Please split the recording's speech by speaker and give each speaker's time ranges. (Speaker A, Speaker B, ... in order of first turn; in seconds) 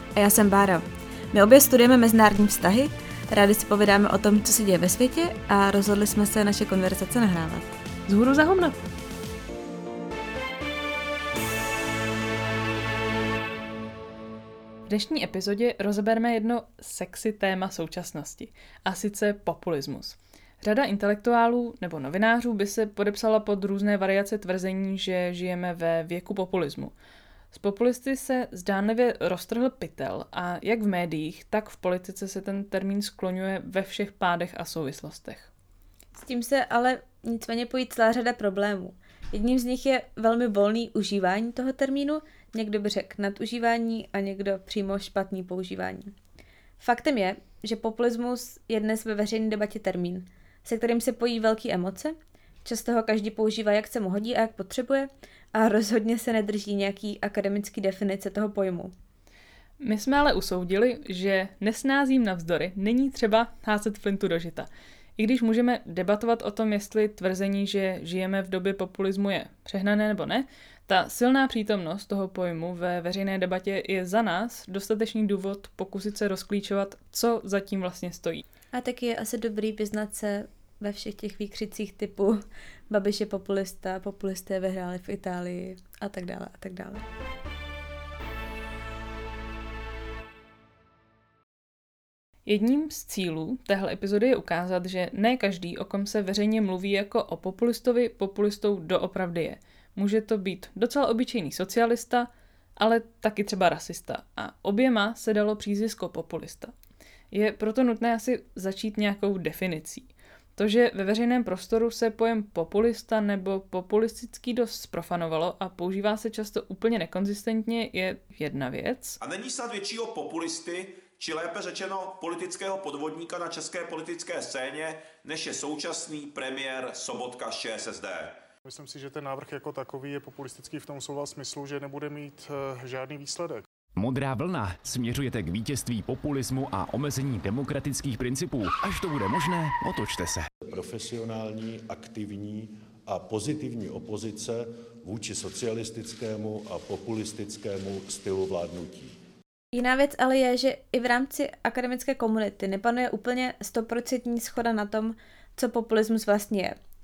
Speaker A: 0.1-7.8, 36.1-46.1, 46.8-58.9, 78.7-87.0, 149.7-156.8
Speaker B: 8.1-8.7, 14.9-26.9, 27.5-35.5, 59.8-78.4, 92.5-106.7, 107.3-119.2
Speaker C: 119.2-128.4
Speaker D: 128.7-133.7
Speaker E: 134.0-140.5
Speaker F: 140.6-149.2